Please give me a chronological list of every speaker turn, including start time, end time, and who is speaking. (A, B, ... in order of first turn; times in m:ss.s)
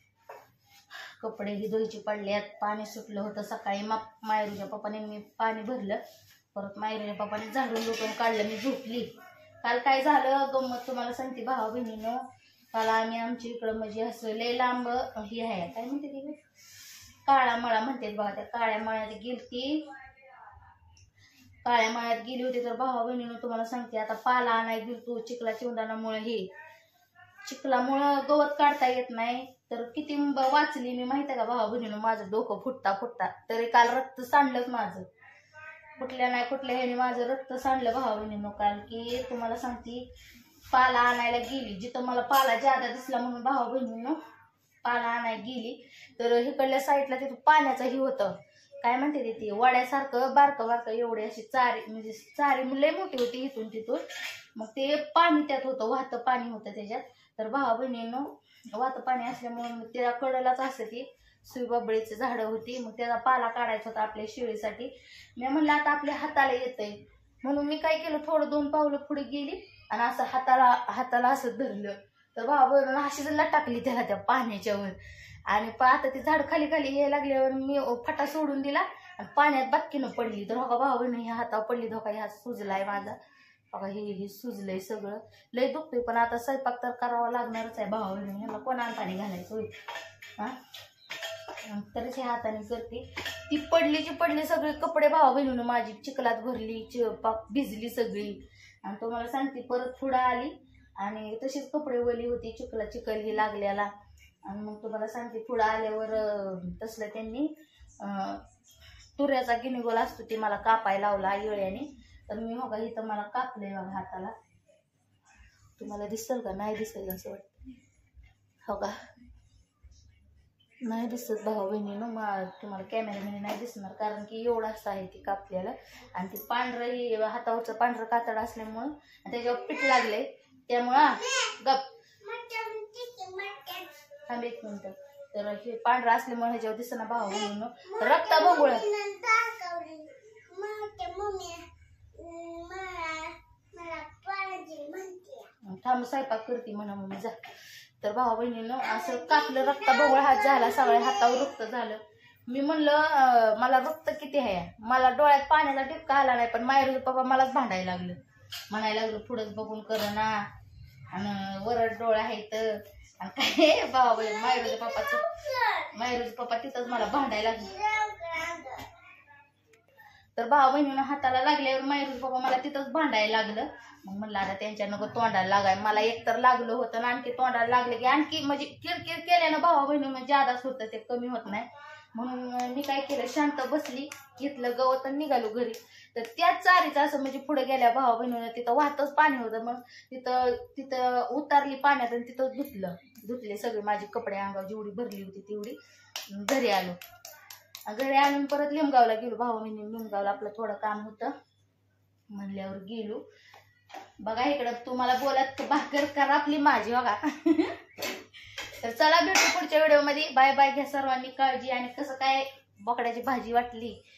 0:01.2-0:06.0 A
0:06.5-0:09.1 A
0:09.6-0:12.2 A
0:12.7-0:16.4 A
0:17.2-0:19.9 A
0:21.6-0:26.5 A
0:27.4-0:35.0 A
0:36.0-0:40.1 A
0:40.7-0:44.2 A
0:44.8-0:54.0 A
0:54.6-1:15.0 A
1:15.5-1:23.2 A
1:23.7-1:29.8 A
1:31.6-1:43.9 A
1:44.4-1:48.4 A
1:49.2-1:54.3 A
1:55.8-1:57.6 A
1:58.6-1:59.0 A
2:00.8-2:11.8 A
2:09.4-2:10.1 B
2:10.9-2:11.5 B
2:12.2-2:13.9 B
2:14.3-2:18.8 A
2:17.2-2:21.6 B
2:22.1-2:25.5 B
2:25.6-2:27.4 A
2:28.0-2:38.2 A
2:28.8-2:31.5 B
2:38.7-2:40.4 A
2:41.1-2:45.3 A
2:44.1-2:46.1 B
2:45.9-2:47.7 A
2:46.8-2:48.9 B
2:50.4-3:15.8 A
3:16.3-3:17.0 A
3:17.9-3:21.3 A
3:22.3-3:23.2 A
3:24.2-3:27.8 A
3:28.8-3:34.0 A